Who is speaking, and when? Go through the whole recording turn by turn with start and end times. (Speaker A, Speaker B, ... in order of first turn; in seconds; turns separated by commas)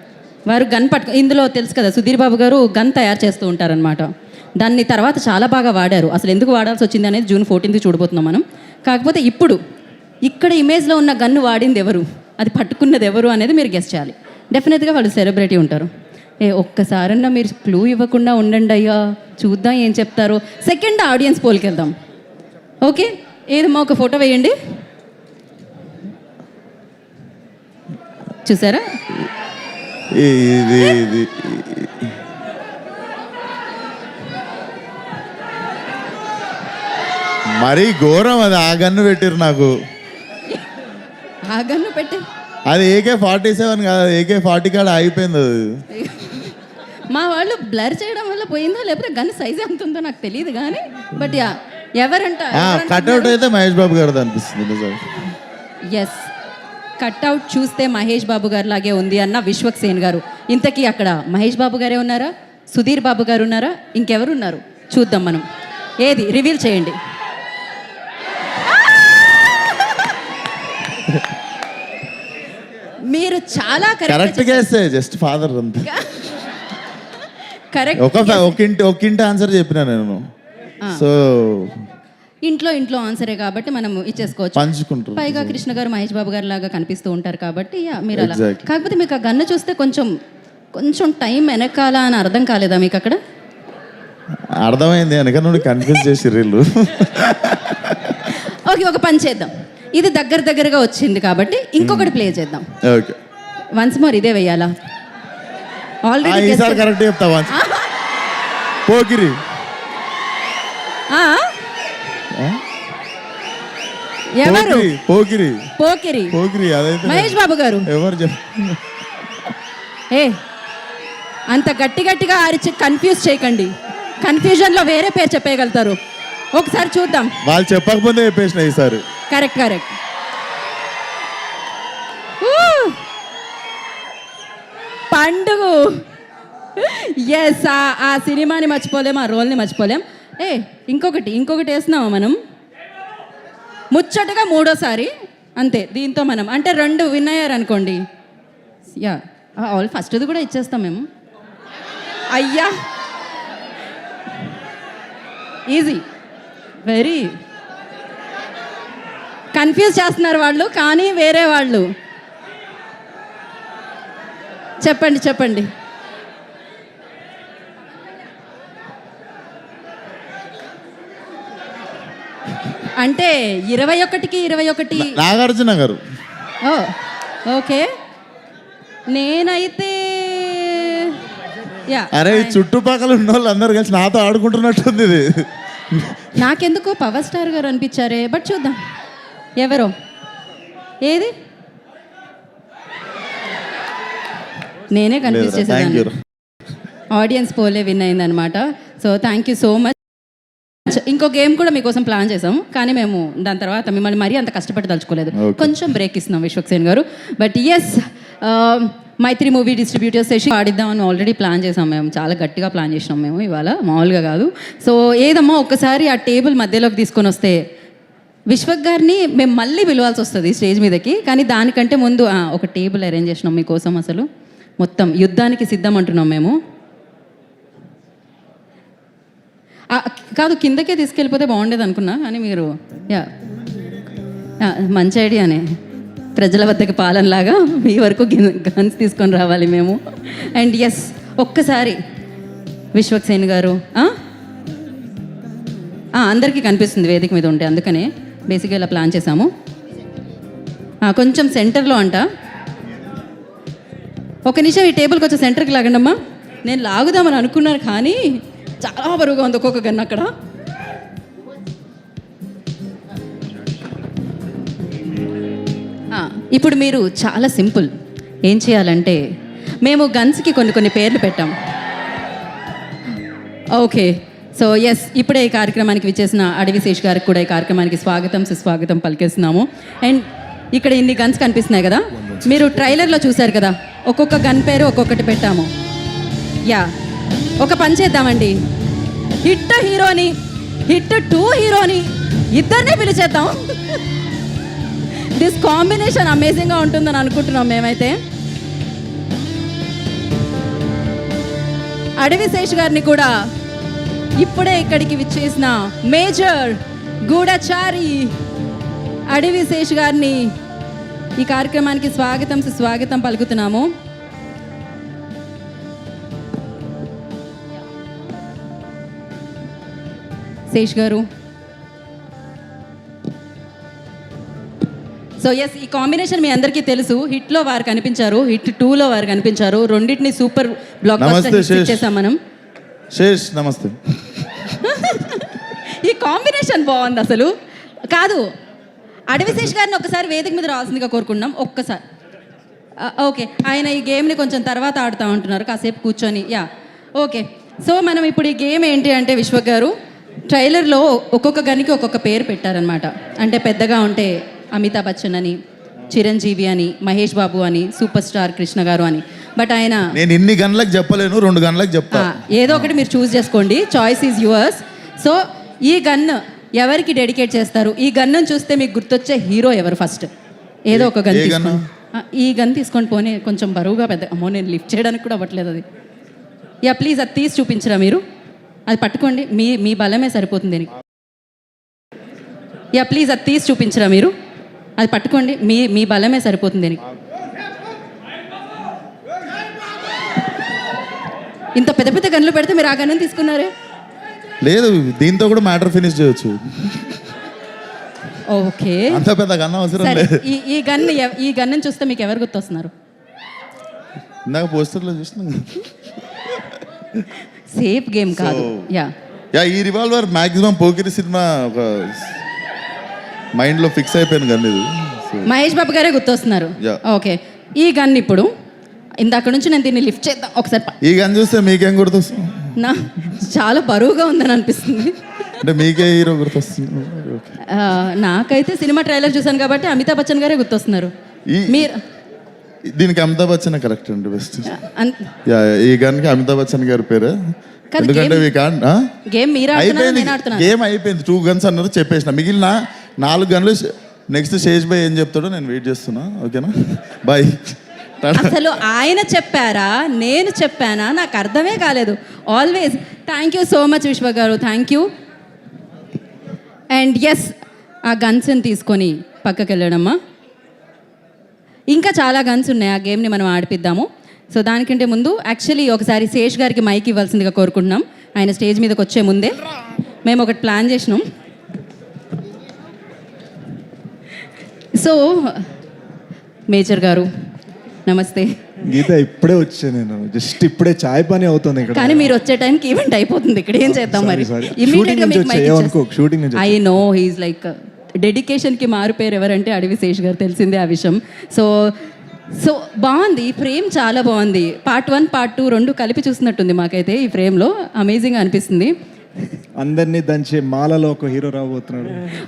Speaker A: 0.5-9.6, Speaker A: 10.2-15.9, Speaker A: 16.4-21.9, Speaker A: 22.9-24.6, Speaker A: 28.4-28.9, Speaker B: 30.1-32.1, Speaker B: 37.5-39.7, Speaker A: 41.5-42.2, Speaker B: 42.7-45.8, Speaker A: 45.9-46.6, Speaker A: 47.1-53.4, Speaker B: 52.5-55.3, Speaker A: 55.9-56.3, Speaker A: 57.0-65.5, Speaker A: 66.0-67.0, Speaker A: 73.0-74.7, Speaker B: 74.1-76.0, Speaker A: 75.9-76.3, Speaker A: 77.7-78.5, Speaker B: 78.0-80.2, Speaker B: 80.9-81.8, Speaker A: 82.5-90.1, Speaker B: 84.5-85.6, Speaker B: 88.1-88.7, Speaker A: 90.8-93.2, Speaker B: 94.6-98.3, Speaker A: 98.2-102.7, Speaker B: 101.8-102.2, Speaker B: 102.8-103.2, Speaker A: 103.8-104.7, Speaker A: 106.1-106.9, Speaker B: 106.2-107.6, Speaker A: 107.5-107.9, Speaker B: 108.9-109.4, Speaker A: 111.1-111.5, Speaker B: 112.3-112.6, Speaker A: 114.3-114.9, Speaker B: 114.4-115.7, Speaker A: 115.8-116.4, Speaker B: 116.3-118.8, Speaker A: 117.0-117.9, Speaker A: 120.1-120.4, Speaker A: 121.5-126.0, Speaker A: 126.5-127.3, Speaker B: 127.4-129.0, Speaker A: 129.3-129.9, Speaker A: 132.4-133.0, Speaker A: 135.1-136.0, Speaker A: 136.8-142.4, Speaker A: 143.9-148.0, Speaker A: 149.0-151.1, Speaker A: 152.3-152.7, Speaker A: 155.7-156.1, Speaker A: 156.8-157.4, Speaker A: 159.5-161.9, Speaker A: 164.8-165.7, Speaker A: 173.0-175.2, Speaker B: 174.9-176.0, Speaker A: 176.6-177.9, Speaker A: 179.1-181.2, Speaker A: 181.9-182.6, Speaker B: 182.1-186.4, Speaker A: 186.4-188.8, Speaker A: 189.6-189.9, Speaker A: 191.0-191.3, Speaker A: 194.9-196.1, Speaker B: 195.2-196.2, Speaker A: 197.1-200.0, Speaker A: 200.9-217.6, Speaker B: 205.3-205.8, Speaker A: 218.5-224.3, Speaker A: 224.8-226.6, Speaker A: 229.9-233.3, Speaker A: 234.6-235.7, Speaker A: 236.4-242.0, Speaker A: 242.9-244.2, Speaker A: 246.2-249.5, Speaker A: 251.0-252.3, Speaker A: 254.5-260.3, Speaker A: 266.1-267.9, Speaker A: 268.5-269.2, Speaker A: 269.8-271.5, Speaker A: 273.8-285.7, Speaker A: 286.6-286.9, Speaker A: 287.6-288.6, Speaker A: 289.4-294.0, Speaker A: 295.1-298.2, Speaker A: 302.2-303.3, Speaker A: 304.4-308.4, Speaker A: 309.3-310.5, Speaker A: 311.4-313.9, Speaker A: 320.7-321.2, Speaker A: 325.4-332.4, Speaker B: 331.2-332.1, Speaker B: 333.1-334.5, Speaker A: 334.8-337.5, Speaker A: 338.1-338.5, Speaker A: 339.3-342.0, Speaker A: 343.0-346.7, Speaker A: 347.2-349.9, Speaker A: 350.5-355.6, Speaker A: 356.1-360.1, Speaker B: 360.1-362.4, Speaker A: 362.1-370.3, Speaker A: 370.9-375.9, Speaker B: 370.9-371.8, Speaker A: 376.9-378.2, Speaker A: 378.9-380.9, Speaker A: 382.9-384.3, Speaker A: 385.0-387.0, Speaker A: 391.8-393.7, Speaker B: 394.6-397.2, Speaker A: 398.4-399.2, Speaker B: 399.1-400.4, Speaker A: 400.0-402.9, Speaker B: 404.5-405.9, Speaker B: 406.5-407.3, Speaker A: 407.7-409.1, Speaker B: 408.4-408.9, Speaker B: 409.5-412.4, Speaker B: 413.6-415.5, Speaker A: 415.4-418.5, Speaker A: 419.2-420.9, Speaker B: 421.0-422.8, Speaker A: 422.8-425.2, Speaker B: 425.6-427.6, Speaker A: 427.6-431.1, Speaker B: 431.5-431.9, Speaker A: 431.7-432.0, Speaker B: 432.9-434.7, Speaker A: 434.7-435.3, Speaker B: 435.4-439.0, Speaker A: 437.9-438.5, Speaker A: 439.3-440.7, Speaker B: 439.7-448.6, Speaker A: 448.4-455.1, Speaker A: 456.9-457.5, Speaker A: 458.1-460.2, Speaker A: 461.9-469.6, Speaker A: 470.2-471.3, Speaker A: 474.9-475.7, Speaker A: 476.7-477.3, Speaker A: 478.1-478.5, Speaker C: 478.8-482.3, Speaker A: 481.9-486.0, Speaker C: 483.8-486.9, Speaker A: 486.6-498.9, Speaker C: 499.8-502.3